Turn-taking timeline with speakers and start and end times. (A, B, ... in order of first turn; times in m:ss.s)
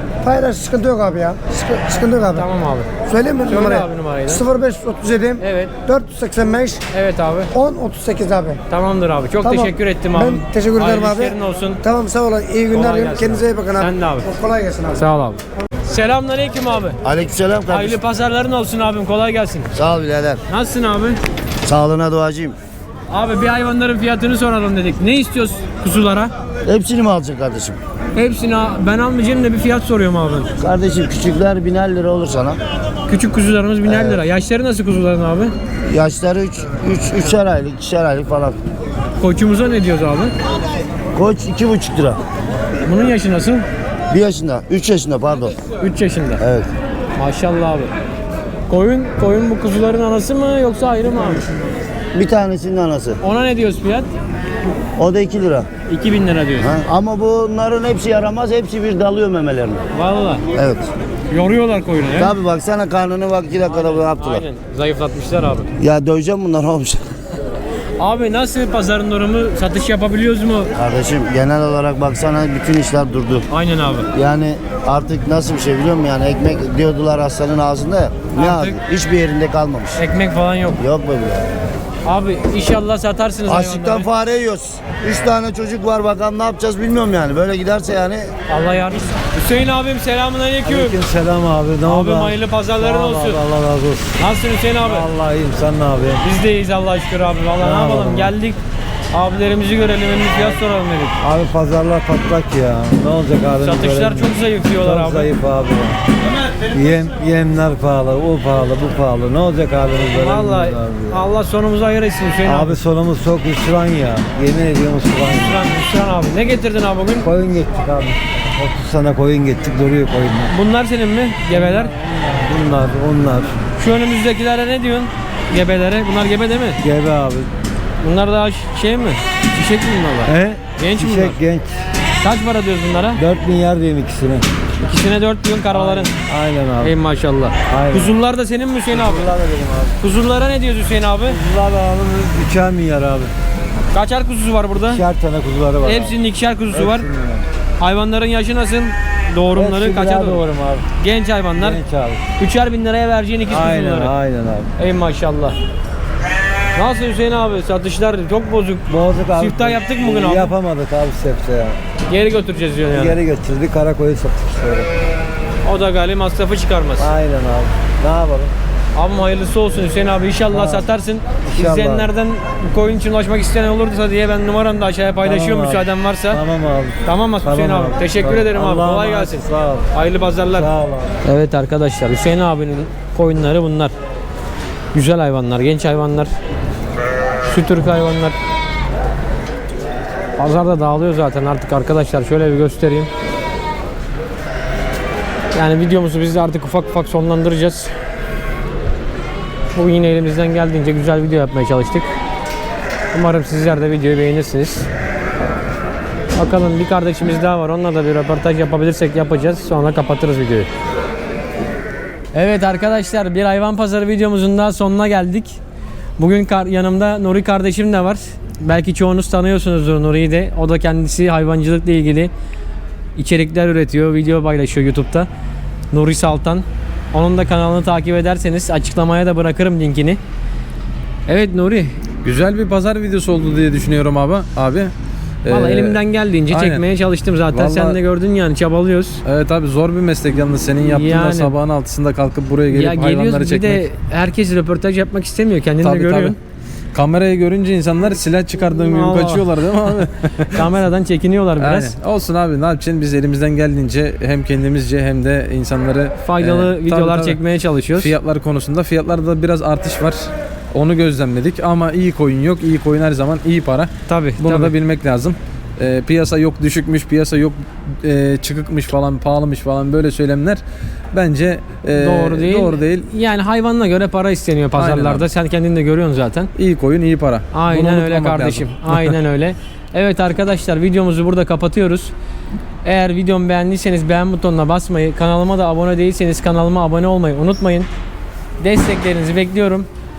0:00.2-0:02.4 A
0:02.3-0:02.9 B
0:03.0-0:06.8 A
0:03.4-0:04.4 B
0:05.4-0:05.7 B
0:06.9-0:07.5 B
0:07.5-0:08.6 A
0:08.7-0:11.8 B
0:09.4-0:15.0 A
0:12.7-0:14.3 B
0:14.9-0:17.0 B
0:17.0-0:18.0 C
0:17.7-0:19.7 B
0:19.7-0:20.4 C
0:20.5-0:21.2 B
0:21.6-0:22.6 C
0:23.1-0:26.3 B
0:26.6-0:27.8 C
0:28.2-0:30.5 B
0:30.6-0:32.6 C
0:33.1-0:35.5 B
0:33.8-0:34.2 C
0:35.9-0:38.6 C
0:39.2-0:40.3 B
0:41.1-0:42.2 C
0:42.8-0:43.6 B
0:44.1-0:45.6 C
0:45.8-0:46.4 B
0:46.4-0:46.7 C
0:47.2-0:47.9 B
0:48.7-0:51.4 B
0:52.1-0:53.2 C
0:53.2-0:54.1 B
0:55.0-0:55.7 C
0:55.9-0:56.7 B
0:56.6-0:59.8 C
0:59.9-1:00.4 B
1:00.6-1:00.9 C
1:01.3-1:02.3 B
1:02.2-1:04.4 C
1:03.6-1:05.7 B
1:05.8-1:07.1 C
1:08.0-1:10.7 B
1:10.8-1:13.4 C
1:13.5-1:14.1 B
1:14.1-1:20.0 C
1:18.3-1:18.8 B
1:20.0-1:20.8 B
1:20.8-1:21.4 C
1:22.0-1:24.1 B
1:23.5-1:28.3 C
1:28.5-1:31.0 B
1:30.6-1:34.1 D
1:31.8-1:33.4 B
1:34.2-1:35.1 B
1:34.8-1:36.2 D
1:36.2-1:38.6 B
1:37.6-1:38.3 D
1:39.1-1:41.2 B
1:40.3-1:40.6 D
1:41.2-1:46.0 D
1:43.6-1:45.3 B
1:46.7-1:51.2 D
1:50.1-1:52.8 B
1:52.4-1:55.6 D
1:55.4-1:57.3 B
1:57.2-2:00.5 D
2:00.5-2:01.9 B
2:01.5-2:03.5 D
2:03.8-2:06.8 B
2:06.8-2:07.5 D
2:08.0-2:11.4 B
2:10.3-2:11.7 D
2:12.2-2:13.2 B
2:13.2-2:14.4 D
2:14.8-2:16.2 B
2:15.7-2:16.9 D
2:16.8-2:19.3 B
2:17.7-2:18.2 D
2:18.9-2:19.9 D
2:20.0-2:21.4 B
2:21.2-2:23.3 D
2:23.9-2:25.0 B
2:24.9-2:26.2 D
2:25.8-2:27.0 B
2:26.7-2:27.4 D
2:27.8-2:30.4 B
2:29.6-2:30.8 D
2:31.0-2:31.8 B
2:31.6-2:32.2 D
2:32.4-2:34.1 B
2:33.5-2:34.7 D
2:34.8-2:35.6 B
2:36.7-2:40.5 B
2:38.9-2:41.8 D
2:42.1-2:43.2 B
2:42.9-2:44.9 D
2:45.6-2:47.1 B
2:47.0-2:48.5 D
2:48.9-2:56.4 B
2:50.5-2:50.9 D
2:51.4-2:52.1 D
2:55.2-2:59.9 D
2:57.0-3:00.7 B
3:00.5-3:01.1 D
3:01.2-3:03.9 B
3:04.9-3:06.3 B
3:07.5-3:08.4 B
3:10.4-3:13.1 B
3:15.5-3:17.9 B
3:19.7-3:22.1 B
3:23.1-3:24.9 B
3:26.4-3:30.7 B
3:32.3-3:35.6 B
3:36.2-3:42.3 B
3:43.2-3:45.3 B
3:45.9-3:50.2 B
3:51.3-3:51.9 B
3:52.2-3:54.9 E
3:55.4-3:56.8 E
3:55.5-3:59.2 B
3:57.5-3:58.0 E
3:59.2-4:03.8 E
4:00.9-4:01.5 B
4:02.7-4:06.4 B
4:05.8-4:06.4 E
4:06.9-4:10.6 E
4:08.7-4:12.0 B
4:11.6-4:17.4 E
4:16.2-4:18.1 B
4:18.0-4:30.6 E
4:24.1-4:24.7 B
4:31.1-4:33.1 E
4:32.0-4:36.5 B
4:34.8-4:35.2 E
4:36.6-4:39.2 E
4:37.5-4:42.1 B
4:42.8-4:47.9 B
4:48.6-4:49.9 B